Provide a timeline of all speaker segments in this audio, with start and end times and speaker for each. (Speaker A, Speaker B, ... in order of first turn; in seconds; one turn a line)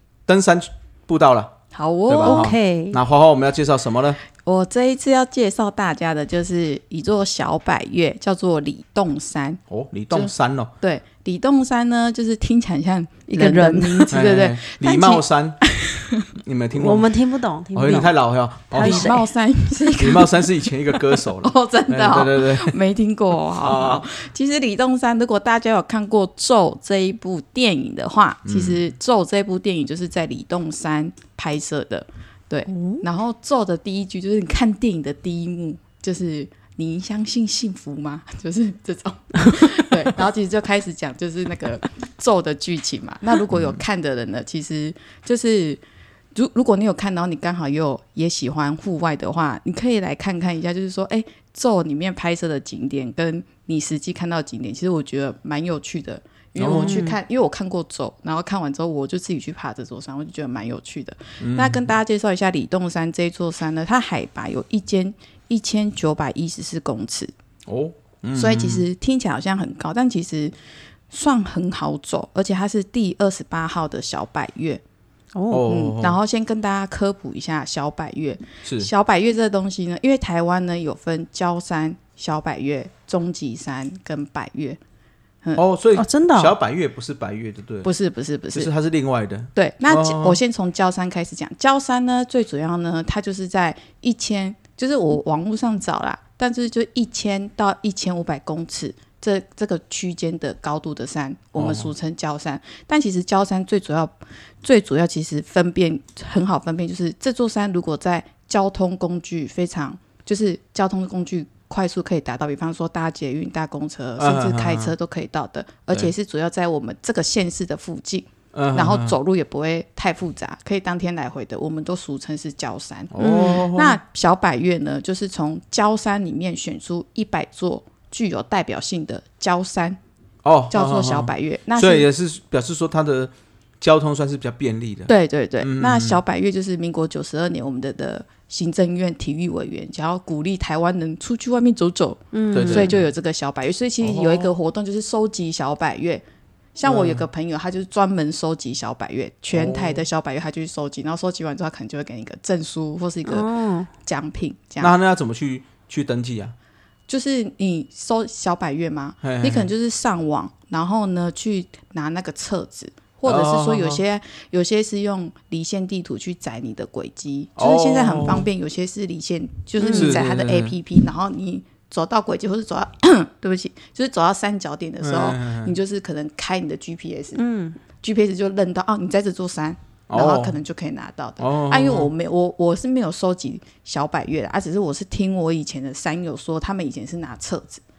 Speaker A: 0.3-1.5
Speaker B: 1.7-2.5
Speaker A: 2.1-4.2
Speaker C: 2.2-3.0
Speaker B: 4.4-16.2
Speaker A: 9.7-10.7
Speaker C: 13.3-14.2
Speaker A: 14.1-15.6
Speaker A: 16.4-17.1
Speaker C: 16.7-18.1
Speaker A: 17.7-19.2
Speaker C: 18.7-19.2
Speaker B: 18.7-20.7
Speaker A: 20.0-22.8
Speaker B: 21.4-45.8
Speaker A: 23.6-24.1
Speaker A: 28.4-28.8
Speaker C: 32.7-33.0
Speaker A: 43.5-43.8
Speaker B: 46.3-67.3
Speaker A: 56.6-57.0
Speaker C: 56.7-57.2
Speaker A: 61.4-61.9
Speaker A: 67.7-68.8
Speaker B: 68.3-70.5
Speaker B: 71.1-74.8
Speaker C: 75.3-75.7
Speaker A: 75.5-76.2
Speaker B: 75.7-84.8
Speaker A: 78.6-78.9
Speaker A: 85.5-87.9
Speaker C: 85.9-86.5
Speaker B: 87.8-88.7
Speaker A: 88.5-90.4
Speaker B: 89.5-130.0
Speaker A: 101.6-101.9
Speaker A: 114.2-114.9
Speaker A: 118.5-119.2
Speaker A: 123.1-124.0
Speaker C: 123.2-123.7
Speaker A: 130.4-136.2
Speaker B: 130.7-132.1
Speaker B: 135.1-146.2
Speaker C: 142.3-142.9
Speaker A: 142.5-143.0
Speaker A: 144.0-144.5
Speaker B: 146.8-153.5
Speaker A: 146.8-147.2
Speaker A: 149.5-150.0
Speaker C: 153.2-153.9
Speaker B: 154.0-154.9
Speaker A: 154.8-156.5
Speaker B: 157.1-177.4
Speaker A: 159.2-159.7
Speaker A: 163.2-164.0
Speaker A: 167.6-168.5
Speaker C: 169.8-170.2
Speaker A: 169.9-170.7
Speaker A: 175.0-175.8
Speaker C: 177.3-177.8
Speaker B: 178.0-187.8
Speaker A: 180.1-180.6
Speaker A: 181.4-182.1